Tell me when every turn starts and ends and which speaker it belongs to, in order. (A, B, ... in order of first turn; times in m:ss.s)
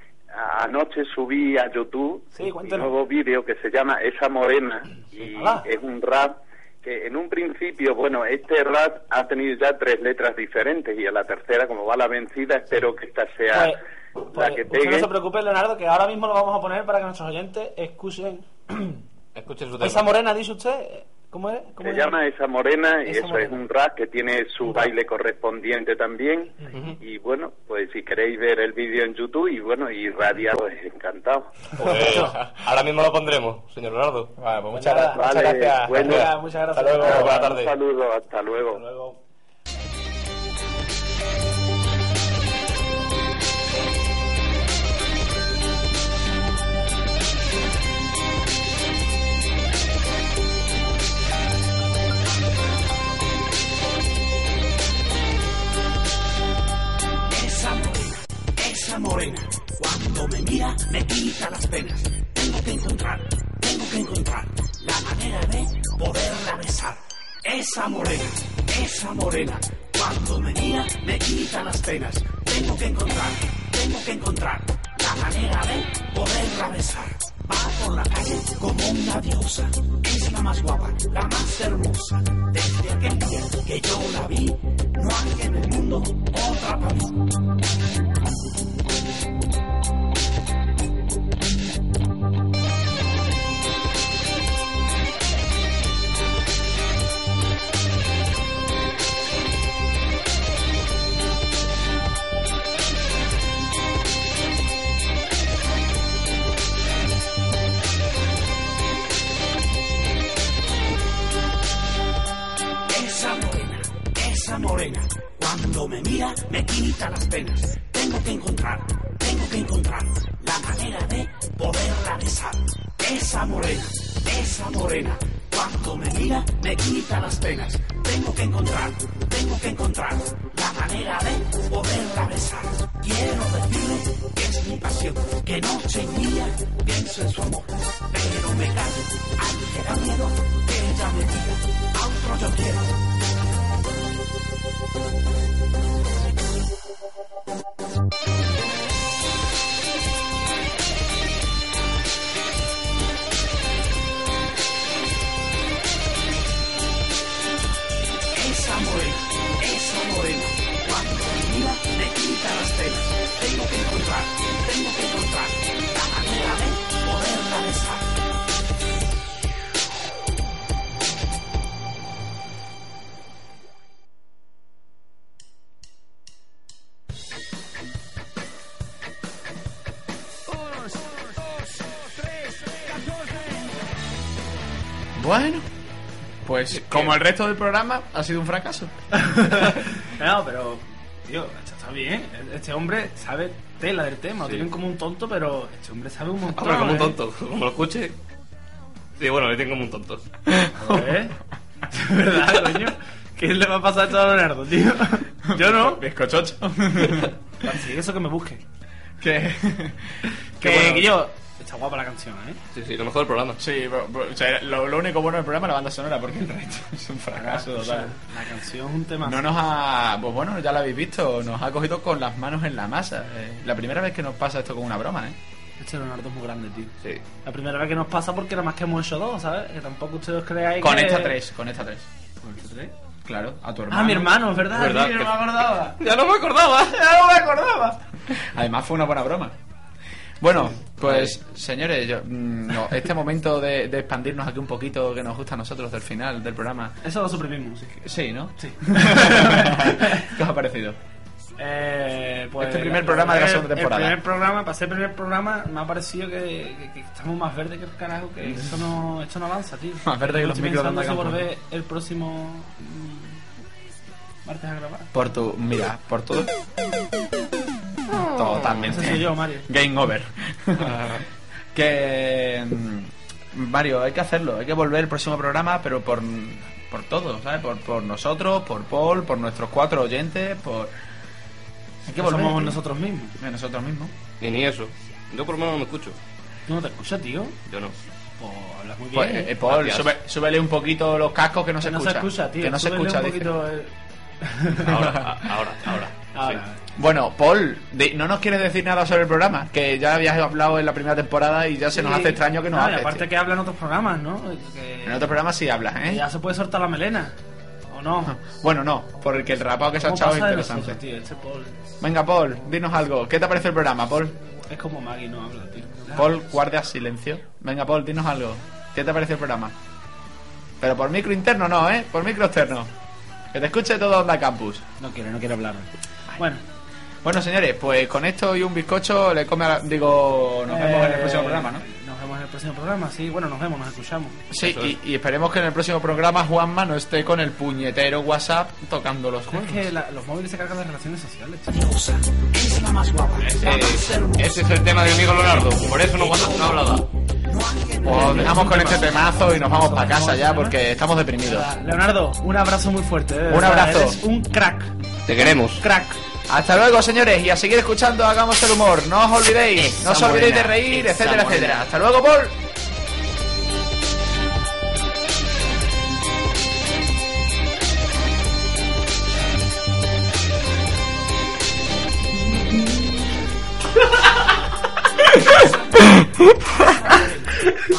0:00.4-0:13.8 A
0:02.3-0:02.9 B
0:05.3-0:05.7 B
0:13.5-0:13.8 B
0:14.3-0:19.0 B
0:14.3-0:15.1 A
0:19.4-0:20.2 C
0:19.8-0:22.2 B
0:21.8-0:31.5 A
0:23.1-0:23.6 B
0:24.6-0:24.9 B
0:31.8-0:34.3 C
0:34.4-0:37.4 D
0:34.7-0:35.2 B
0:35.1-0:36.3 A
0:36.0-0:37.4 B
0:37.0-0:37.7 C
0:37.1-0:38.8 A
0:38.7-0:39.2 B
0:57.3-1:27.2 E
1:52.9-2:22.9 E
2:38.3-2:48.1 E
3:05.2-3:05.7 D
3:06.5-3:08.9 D
3:06.8-3:07.2 C
3:09.2-3:17.2 B
3:16.6-3:18.2 C
3:19.2-3:20.2 C
3:20.8-3:21.4 B
3:21.9-3:26.0 B
3:25.5-3:27.3 D
3:27.6-3:28.6 B
3:29.2-3:31.1 D
3:30.6-3:32.6 B
3:32.7-3:33.6 C
3:33.6-3:38.1 D
3:37.3-3:39.5 B
3:39.2-3:45.4 D
3:45.8-3:46.9 B
3:47.4-3:51.4 B
3:50.8-3:52.1 D
3:52.4-3:52.9 B
3:53.2-3:54.5 D
3:53.9-3:56.0 B
3:54.7-3:55.4 C
3:56.0-3:57.0 C
3:57.1-3:58.0 B
3:58.3-3:59.5 D
4:00.4-4:07.0 D
4:01.0-4:01.4 C
4:07.0-4:08.0 B
4:08.0-4:11.0 D
4:08.6-4:10.3 B
4:11.6-4:23.4 B
4:12.6-4:14.2 D
4:20.1-4:21.4 D
4:24.4-4:25.1 B
4:25.1-4:26.5 D
4:28.3-4:40.9 D
4:28.8-4:29.7 B
4:42.1-4:42.8 D
4:42.1-4:43.4 B
4:43.4-4:44.1 D
4:44.4-4:46.2 C
4:46.7-4:47.6 B
4:47.7-4:48.0 C
4:48.4-4:49.5 B
4:49.2-4:53.5 D
4:49.7-4:50.1 C
4:51.8-4:54.9 B
4:54.8-4:56.6 C
4:56.3-4:56.8 B
4:57.0-5:03.2 D
5:01.9-5:05.3 B
5:05.1-5:06.2 D
5:06.1-5:07.4 B
5:07.9-5:08.3 B
5:08.3-5:11.0 D
5:10.0-5:11.8 B
5:12.0-5:14.4 D
5:14.7-5:16.3 B
5:16.2-5:19.7 D
5:20.8-5:22.9 D
5:23.5-5:24.8 D
5:25.0-5:26.6 B
5:27.2-5:31.8 D
5:30.7-5:34.4 B
5:34.5-5:39.9 D
5:34.6-5:35.0 C
5:39.5-5:41.9 B
5:41.7-5:44.6 E
5:43.6-5:47.1 C
5:45.8-5:48.9 E
5:48.0-5:48.6 C
5:48.1-5:50.8 B
5:48.1-5:51.6 D
5:51.4-5:54.9 B
5:53.5-5:54.2 D
5:55.3-5:55.8 C
5:55.7-5:56.2 B
5:56.5-6:02.5 D
6:00.0-6:01.8 B
6:16.8-6:17.4 E